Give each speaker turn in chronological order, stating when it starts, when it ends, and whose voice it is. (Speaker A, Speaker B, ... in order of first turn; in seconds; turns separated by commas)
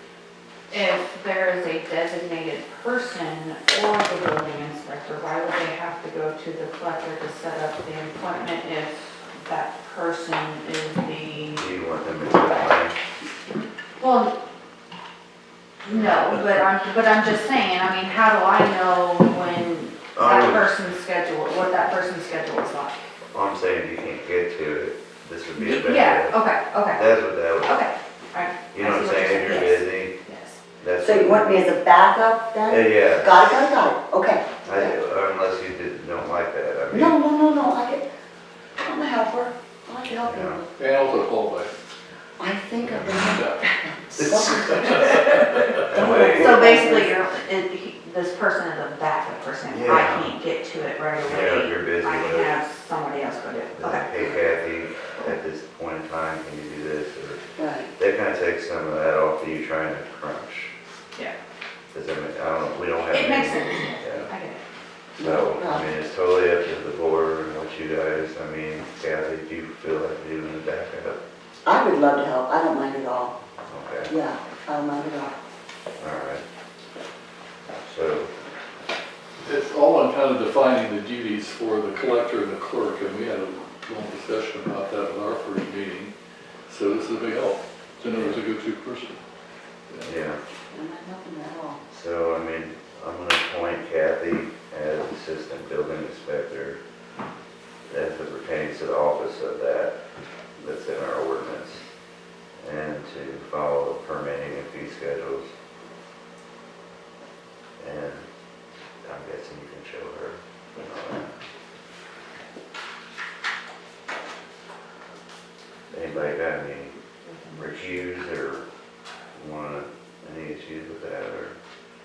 Speaker A: 0.7-11.7, Speaker B: 11.6-12.9, Speaker A: 14.0-14.3, Speaker A: 15.8-23.0, Speaker B: 15.9-16.4, Speaker B: 20.1-20.7, Speaker B: 23.3-26.4, Speaker A: 25.6-27.0, Speaker B: 26.9-27.8, Speaker A: 27.6-30.6, Speaker B: 28.7-30.1, Speaker B: 30.8-31.7, Speaker C: 31.0-34.9, Speaker B: 32.7-33.3, Speaker B: 34.6-37.2, Speaker C: 36.9-38.0, Speaker C: 38.8-40.7, Speaker B: 40.2-40.6, Speaker D: 40.8-41.7, Speaker C: 42.4-47.1, Speaker D: 42.9-43.6, Speaker B: 44.2-46.7, Speaker A: 46.0-54.4, Speaker B: 49.7-50.3, Speaker B: 51.2-52.5, Speaker B: 53.7-57.4, Speaker C: 57.6-57.9, Speaker B: 57.9-60.7, Speaker B: 61.9-64.3, Speaker A: 63.1-64.6, Speaker C: 65.2-65.9, Speaker B: 65.2-71.2, Speaker C: 71.6-73.3, Speaker B: 73.7-74.1, Speaker C: 74.1-75.3, Speaker B: 76.0-76.4, Speaker B: 77.8-78.3, Speaker D: 79.4-86.1, Speaker D: 86.7-89.2, Speaker B: 88.1-88.4, Speaker B: 90.0-90.4, Speaker C: 90.7-91.8, Speaker B: 91.9-96.8, Speaker B: 97.9-99.9, Speaker B: 100.6-101.8, Speaker B: 102.6-105.5, Speaker B: 107.8-108.2, Speaker B: 109.0-111.3, Speaker B: 115.9-116.9, Speaker A: 117.5-118.0, Speaker B: 117.5-118.7, Speaker B: 119.3-121.5